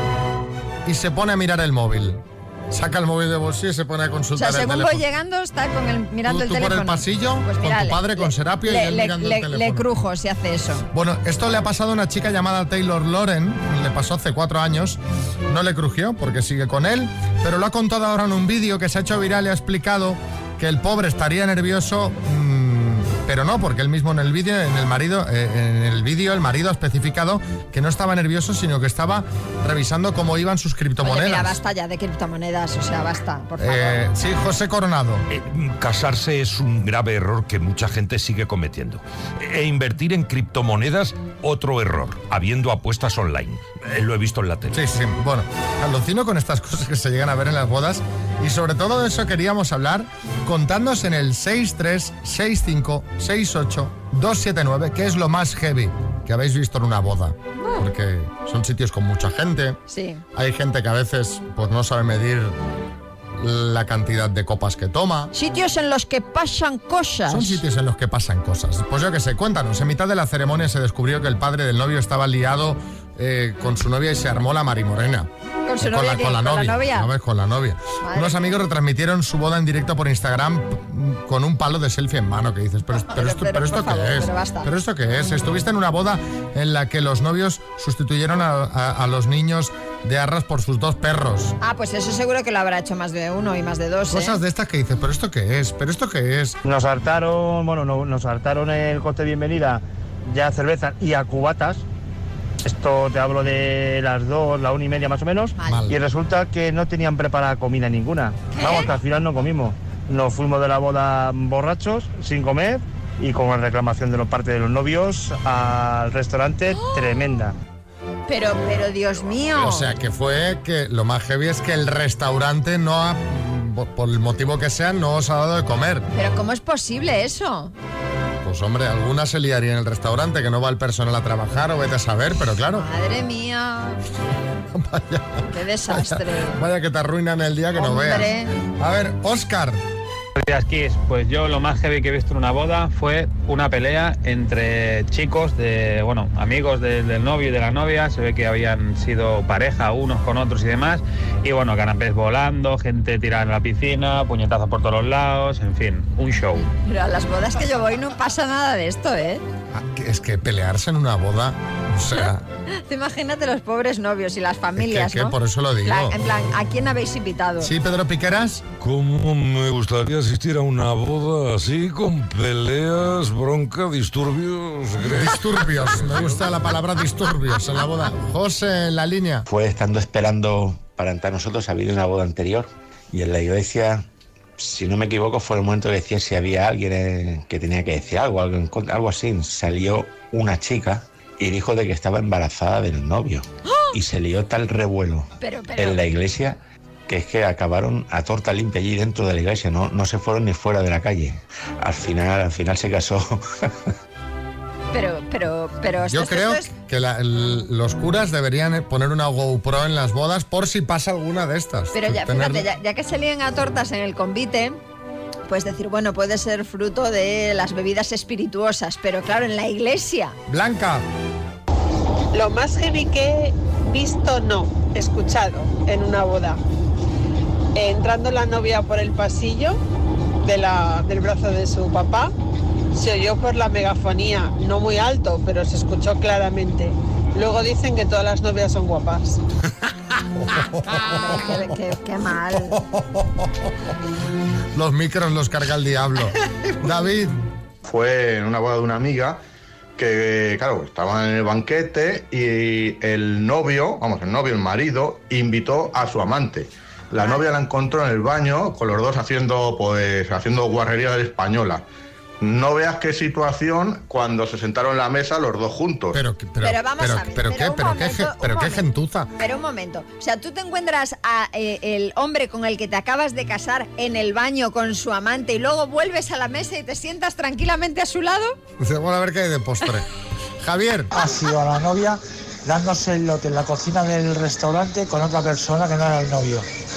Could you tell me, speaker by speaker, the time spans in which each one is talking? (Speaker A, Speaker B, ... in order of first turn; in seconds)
Speaker A: 0.8-5.0, 6.2-9.9, 10.9-31.6, 33.6-35.2, 44.7-59.8, 60.3-62.6, 63.4-65.3, 67.3-75.3, 75.8-91.5, 94.1-96.6, 105.7-106.0, 119.5-126.1, 128.4-132.8, 134.7-139.8, 159.7-162.4, 164.8-166.2, 167.6-168.7, 175.1-179.5, 206.1-212.7, 220.5-221.1, 240.5-241.7, 242.5-243.5, 244.7-247.4, 266.1-269.3, 278.8-280.1, 280.6-281.1
Speaker B: 4.3-10.8, 31.0-34.0, 59.9-60.2, 65.3-67.6, 75.7-77.1, 78.0-78.5, 83.1-84.7, 91.6-94.4, 105.6-105.9, 108.5-108.9, 118.3-119.9, 126.1-127.7, 132.7-134.0, 135.5-136.6, 137.8-138.5, 156.8-159.4, 162.8-167.7, 195.4-196.0, 204.9-206.7, 211.9-214.8, 215.5-220.3, 241.0-242.8, 266.6-268.9, 269.4-278.6
Speaker C: 35.3-44.8
Speaker D: 96.6-101.8, 102.6-117.5
Speaker E: 140.4-156.7
Speaker F: 168.8-176.4
Speaker G: 179.5-184.0, 184.6-203.7
Speaker H: 222.3-226.6, 227.8-229.8, 230.4-232.3, 232.9-239.4
Speaker I: 247.8-249.4, 250.0-261.8, 262.4-266.2
Speaker J: 281.1-286.6